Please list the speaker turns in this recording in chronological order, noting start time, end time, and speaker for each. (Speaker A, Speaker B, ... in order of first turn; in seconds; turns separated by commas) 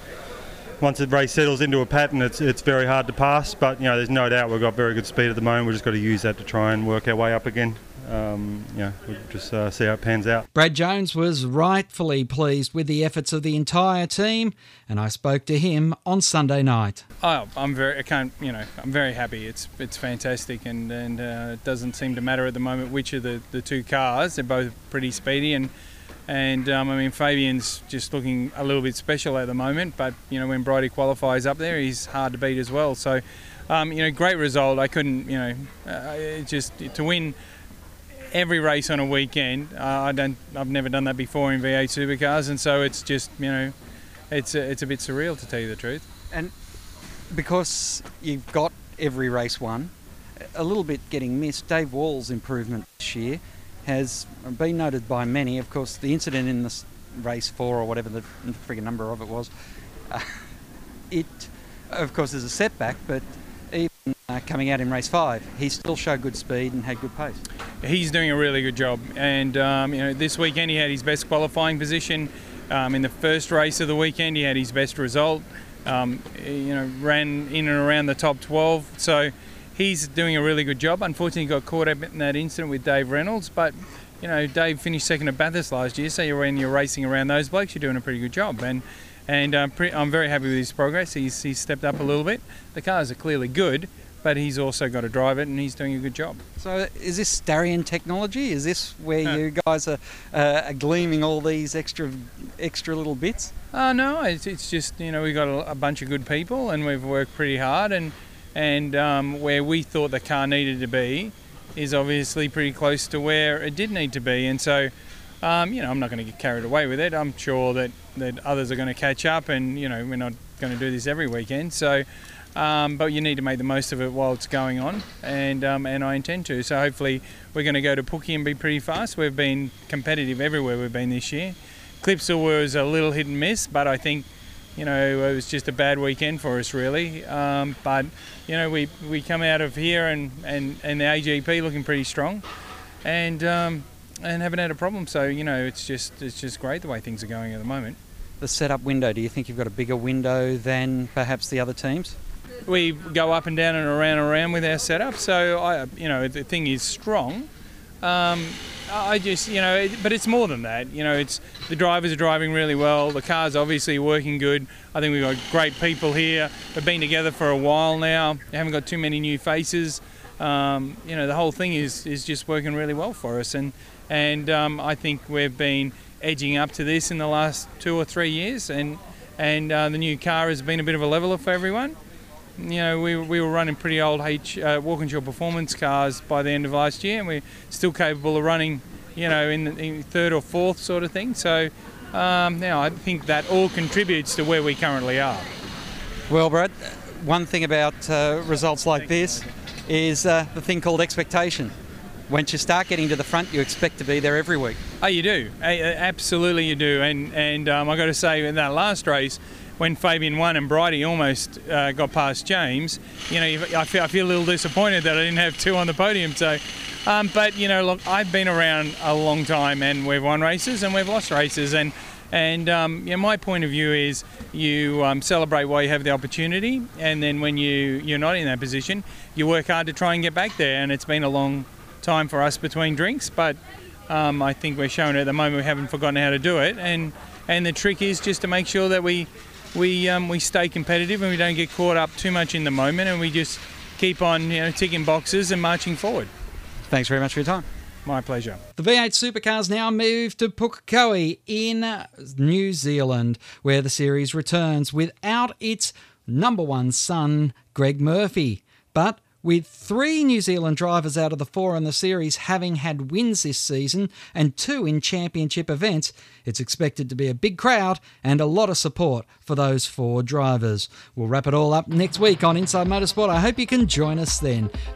Speaker A: 0.8-10.4, Speaker B: 10.5-17.0, Speaker C: 17.2-25.7, Speaker C: 26.3-37.4, Speaker C: 38.3-43.7, Speaker C: 44.3-46.1, Speaker B: 47.3-49.9, Speaker B: 50.5-59.5, Speaker B: 61.1-67.4, Speaker C: 67.8-96.4, Speaker B: 96.6-103.5, Speaker C: 103.7-114.9, Speaker C: 115.4-122.0, Speaker C: 122.5-142.4, Speaker C: 143.0-148.0, Speaker B: 148.4-152.2, Speaker C: 152.7-157.5, Speaker C: 158.0-181.9, Speaker C: 182.6-195.5, Speaker B: 196.3-201.7, Speaker B: 202.3-204.8, Speaker C: 205.0-233.6, Speaker C: 234.1-246.3, Speaker B: 246.9-247.7, Speaker C: 248.1-248.6, Speaker B: 248.8-274.7